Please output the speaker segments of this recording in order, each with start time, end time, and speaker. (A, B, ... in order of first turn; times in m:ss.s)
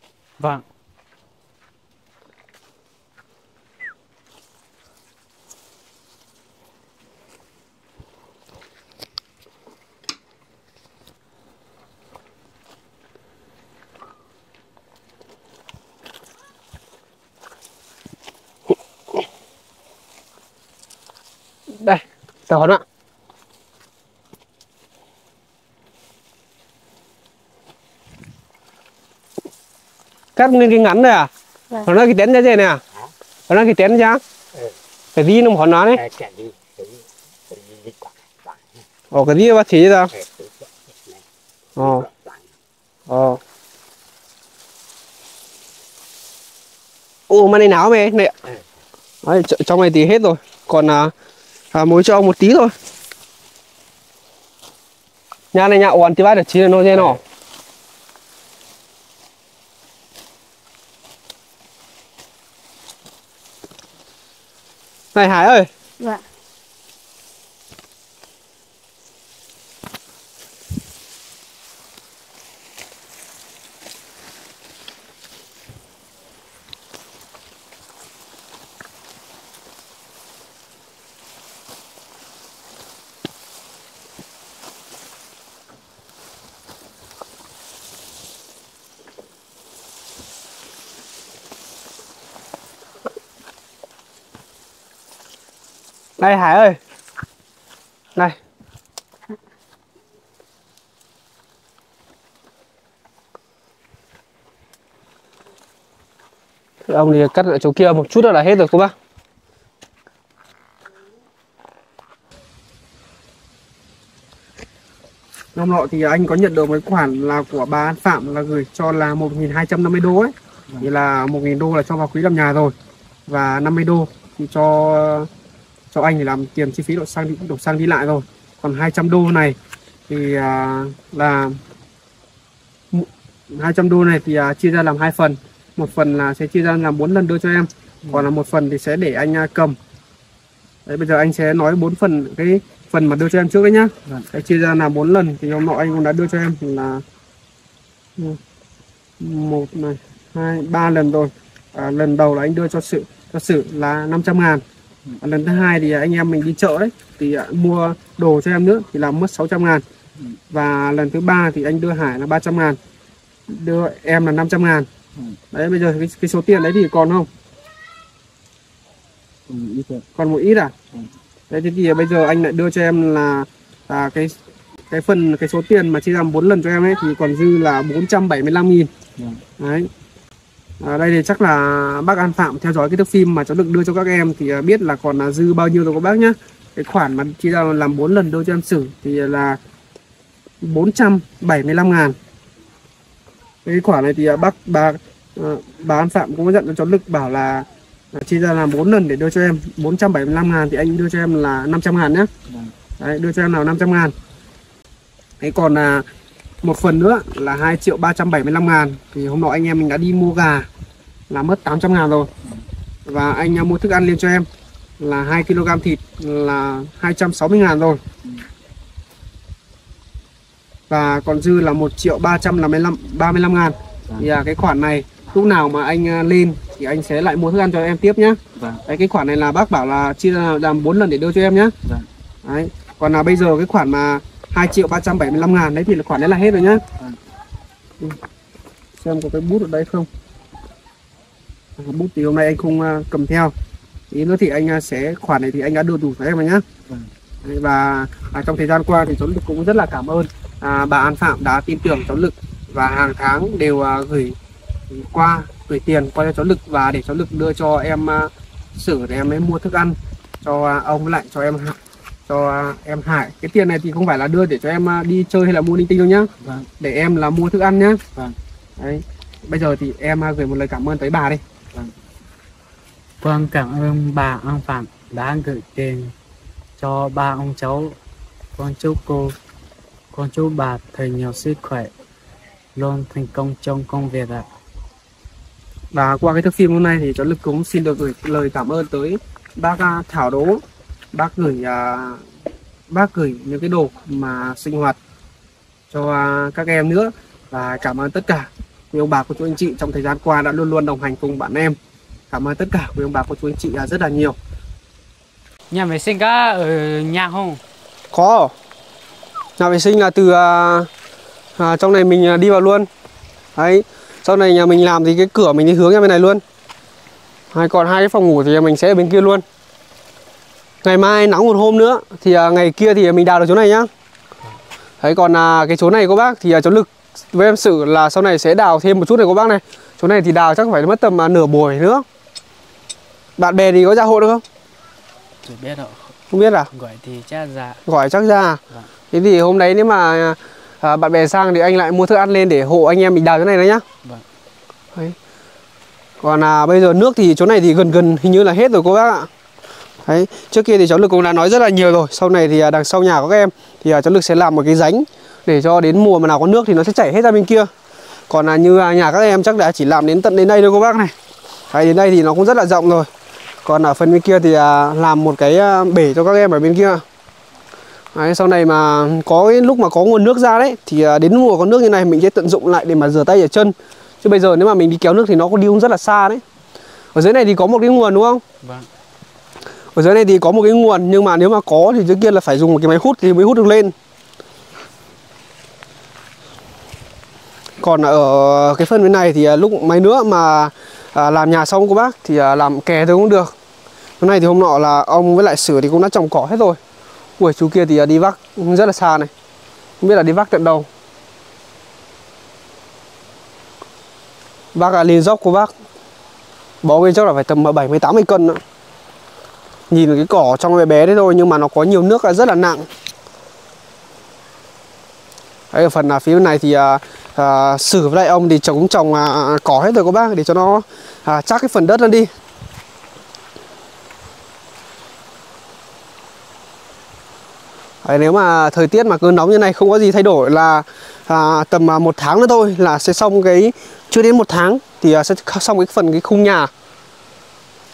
0:21.7-0:22.8 A
0:30.4-0:31.3 A
0:31.8-0:32.8 A
0:33.5-0:34.2 A
0:35.2-0:36.0 A
0:35.9-0:38.8 B
0:39.1-0:40.1 A
0:40.1-0:41.2 B
0:41.8-0:42.1 A
0:41.8-0:42.5 B
0:43.1-0:43.4 A
0:47.3-0:48.4 A
0:49.2-0:51.1 A
0:51.7-0:52.7 A
0:55.5-0:57.2 A
1:05.1-1:05.7 A
1:36.2-1:36.8 A
1:46.9-1:48.9 A
1:55.6-2:02.8 A
2:03.3-2:05.3 A
2:05.9-2:09.6 A
2:10.1-2:11.6 A
2:12.9-2:19.8 A
2:20.9-2:27.0 A
2:29.2-2:34.6 A
2:35.2-2:39.8 A
2:40.5-2:42.8 A
2:43.5-2:44.9 A
2:45.5-2:47.3 A
2:49.5-2:50.0 C
2:50.2-2:50.8 A
2:51.5-2:54.4 A
2:54.9-2:58.9 A
2:59.6-2:59.9 A
3:00.8-3:09.6 A
3:10.6-3:12.2 A
3:13.6-3:22.3 A
3:23.0-3:24.1 A
3:25.4-3:26.1 A
3:26.6-3:30.7 A
3:31.3-3:32.3 A
3:33.1-3:34.5 A
3:35.0-3:38.0 A
3:40.9-3:51.8 A
3:52.4-3:56.9 A
3:59.0-4:00.1 A
4:01.8-4:03.5 A
4:04.1-4:06.7 A
4:07.4-4:14.4 A
4:14.9-4:28.0 A
4:26.4-4:26.7 C
4:28.8-4:31.4 A
4:33.2-4:36.1 C
4:36.8-4:38.0 C
4:38.6-4:39.4 C
4:40.1-4:41.9 C
4:42.8-4:44.5 C
4:45.9-4:52.2 A
4:52.9-4:55.0 A
4:55.9-5:01.8 A
5:02.3-5:04.4 A
5:05.7-5:07.6 C
5:08.1-5:08.5 A
5:09.6-5:10.9 A
5:11.6-5:12.9 A
5:13.6-5:16.4 A
5:17.5-5:19.4 A
5:20.8-5:23.9 A
5:25.0-5:32.0 A
5:33.4-5:34.4 A
5:35.4-5:36.2 C
5:36.3-5:36.7 A
5:36.7-5:37.8 C
5:37.9-5:43.8 A
5:46.2-5:49.3 A
5:50.0-5:57.7 A
5:58.3-6:01.2 A
6:01.7-6:03.1 A
6:03.6-6:07.0 A
6:08.1-6:16.4 A
6:17.2-6:18.4 A
6:18.6-6:18.9 C
6:20.0-6:24.0 A
6:27.8-6:33.5 A
6:34.2-6:36.8 A
6:37.4-6:39.3 A
6:40.0-6:40.9 A
6:44.8-6:45.7 A
6:46.8-6:48.6 A
6:49.9-6:52.9 A
6:55.7-7:02.3 A
7:08.0-7:16.7 A